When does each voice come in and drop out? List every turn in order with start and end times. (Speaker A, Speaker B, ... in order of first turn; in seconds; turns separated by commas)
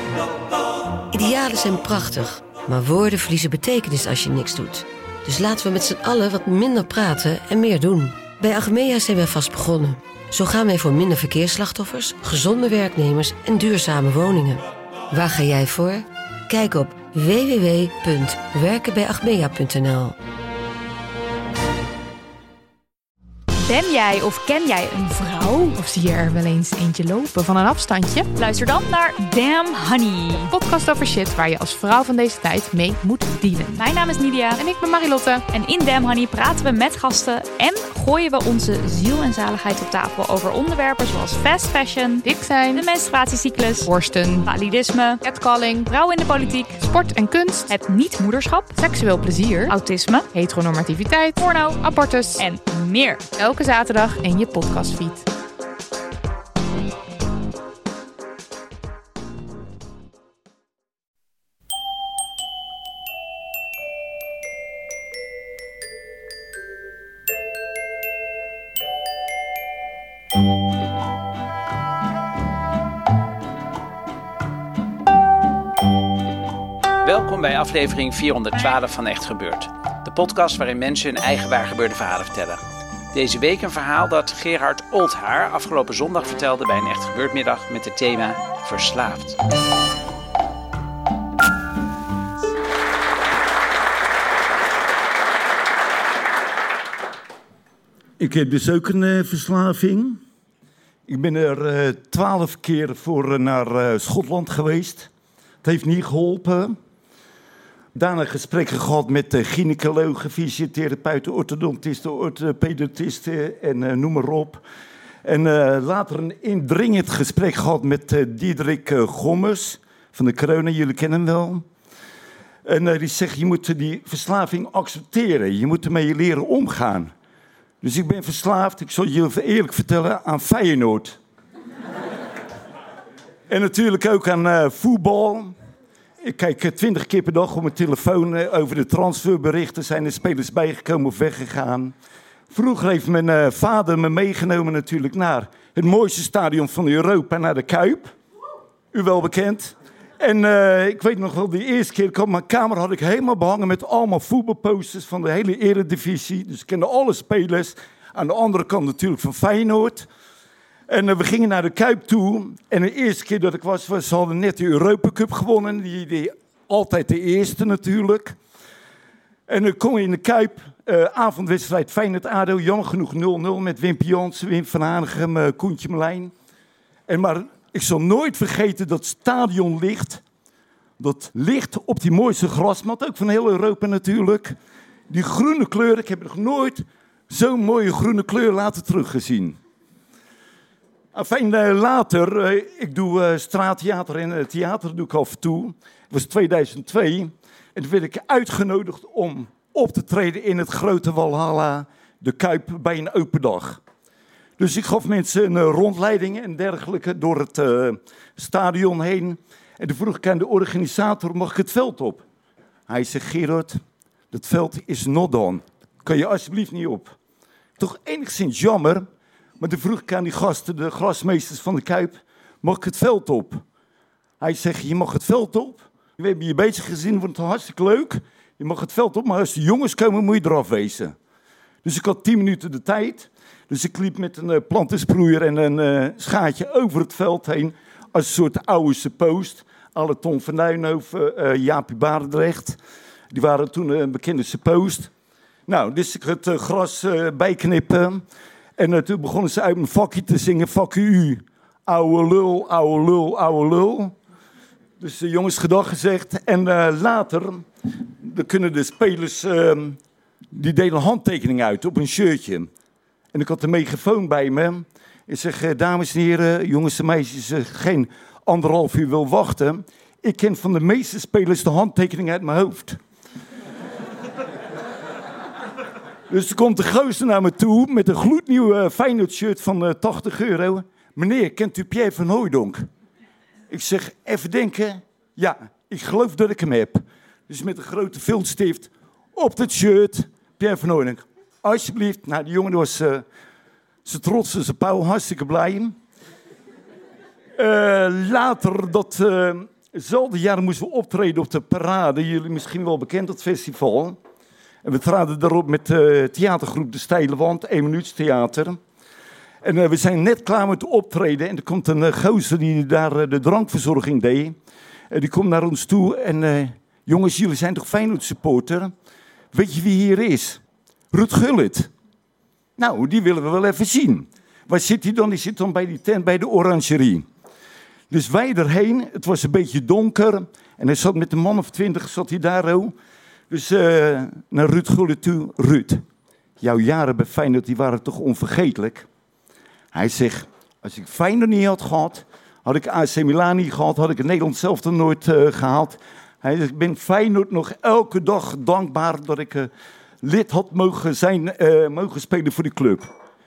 Speaker A: 1.1-20.1, Speaker B: 23.6-25.8, Speaker C: 25.8-28.3, Speaker B: 28.4-30.5, Speaker C: 30.4-34.0, Speaker B: 33.8-34.6, Speaker C: 34.6-35.5, Speaker B: 35.5-43.9, Speaker C: 42.2-42.9, Speaker C: 43.8-44.5, Speaker B: 44.5-45.2, Speaker C: 45.2-45.9, Speaker B: 45.9-46.8, Speaker C: 46.8-47.8, Speaker B: 47.7-48.8, Speaker C: 48.8-49.8, Speaker B: 49.7-50.3, Speaker C: 50.3-52.5, Speaker B: 51.4-51.8, Speaker B: 52.4-53.2, Speaker C: 53.4-55.3, Speaker D: 77.0-82.6, Speaker D: 83.1-89.4, Speaker E: 98.2-100.2, Speaker E: 101.1-105.1, Speaker E: 105.6-106.7, Speaker E: 108.0-114.6, Speaker E: 115.2-121.7, Speaker E: 122.7-127.1, Speaker E: 127.8-131.2, Speaker E: 133.5-135.5, Speaker E: 136.2-141.9, Speaker E: 142.5-148.1, Speaker E: 148.9-160.1, Speaker E: 160.9-168.4, Speaker E: 169.5-176.3, Speaker E: 177.1-180.2, Speaker E: 181.0-184.5, Speaker E: 185.1-189.6, Speaker E: 191.1-203.8, Speaker E: 204.6-212.2, Speaker E: 212.9-213.8, Speaker E: 214.3-217.2, Speaker E: 217.8-219.1, Speaker E: 219.6-223.6, Speaker E: 224.4-231.1, Speaker E: 231.8-242.8, Speaker E: 243.3-245.1, Speaker E: 245.7-248.2, Speaker E: 248.8-254.1, Speaker E: 255.0-257.6, Speaker E: 258.2-260.0, Speaker E: 260.5-262.7, Speaker E: 263.3-273.0, Speaker E: 276.3-282.8, Speaker E: 283.7-293.2, Speaker E: 294.1-295.9, Speaker E: 297.6-304.2, Speaker E: 304.8-308.8, Speaker E: 309.6-314.6, Speaker E: 315.1-318.9, Speaker E: 319.5-320.6, Speaker E: 321.1-321.9, Speaker E: 322.8-327.3, Speaker E: 328.1-332.9, Speaker E: 333.5-336.0, Speaker E: 336.6-339.1, Speaker E: 339.9-349.7, Speaker E: 350.2-353.1